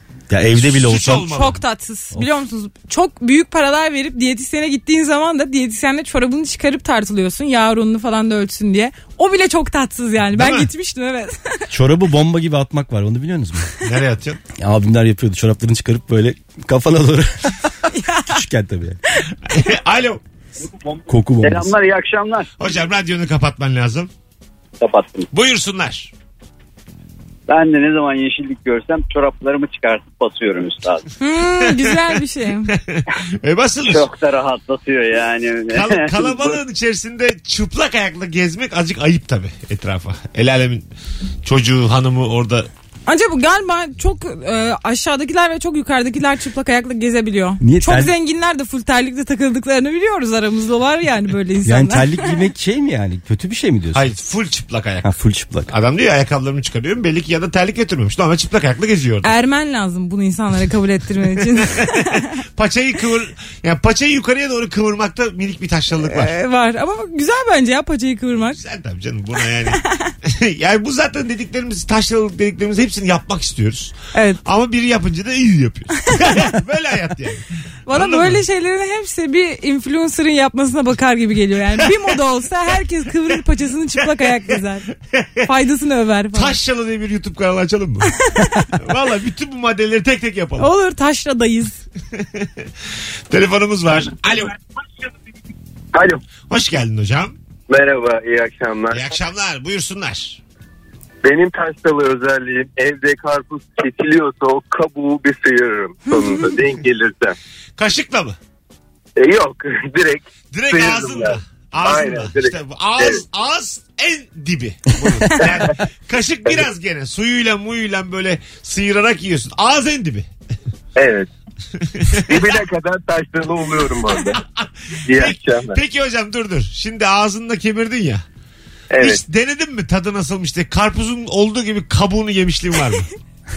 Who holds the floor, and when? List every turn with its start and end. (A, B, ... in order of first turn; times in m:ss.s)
0:00.3-0:01.4 A
0:00.4-0:01.6 B
0:01.2-0:11.6 C
0:10.3-0:10.7 B
0:11.7-0:13.7 A
0:13.8-0:14.4 B
0:14.6-0:19.0 A
0:17.9-0:18.4 C
0:19.5-0:20.2 B
0:21.1-0:21.8 A
0:21.4-0:22.7 D
0:22.6-0:24.1 B
0:24.8-0:25.3 D
0:25.3-0:26.1 B
0:27.5-0:31.0 D
0:31.2-0:32.7 C
0:31.7-0:34.1 B
0:33.8-0:36.6 D
0:35.7-0:40.8 B
0:41.4-0:42.7 B
0:43.1-0:52.4 C
0:47.6-0:48.1 A
0:51.6-0:54.1 A
0:53.9-0:55.1 B
0:55.0-0:55.7 A
0:55.7-0:59.3 B
0:59.2-1:02.3 C
1:01.6-1:06.3 B
1:06.0-1:08.6 C
1:08.5-1:18.4 B
1:09.7-1:10.1 C
1:14.1-1:14.4 C
1:16.1-1:16.3 C
1:17.9-1:24.8 C
1:24.0-1:24.6 B
1:25.1-1:25.5 B
1:25.5-1:26.6 C
1:26.3-1:28.2 B
1:28.2-1:28.7 C
1:28.8-1:30.7 B
1:30.6-1:31.8 C
1:32.2-1:32.5 B
1:33.3-1:34.6 B
1:35.9-1:36.2 E
1:36.5-1:37.4 B
1:37.7-1:39.0 E
1:38.9-1:40.4 B
1:41.2-1:47.4 E
1:46.1-1:46.6 C
1:47.8-1:48.4 B
1:49.2-1:53.2 E
1:50.5-2:00.3 B
2:01.0-2:01.3 E
2:01.8-2:02.6 B
2:02.3-2:04.4 E
2:04.3-2:08.2 B
2:05.1-2:05.8 E
2:08.9-2:09.2 E
2:09.0-2:13.1 B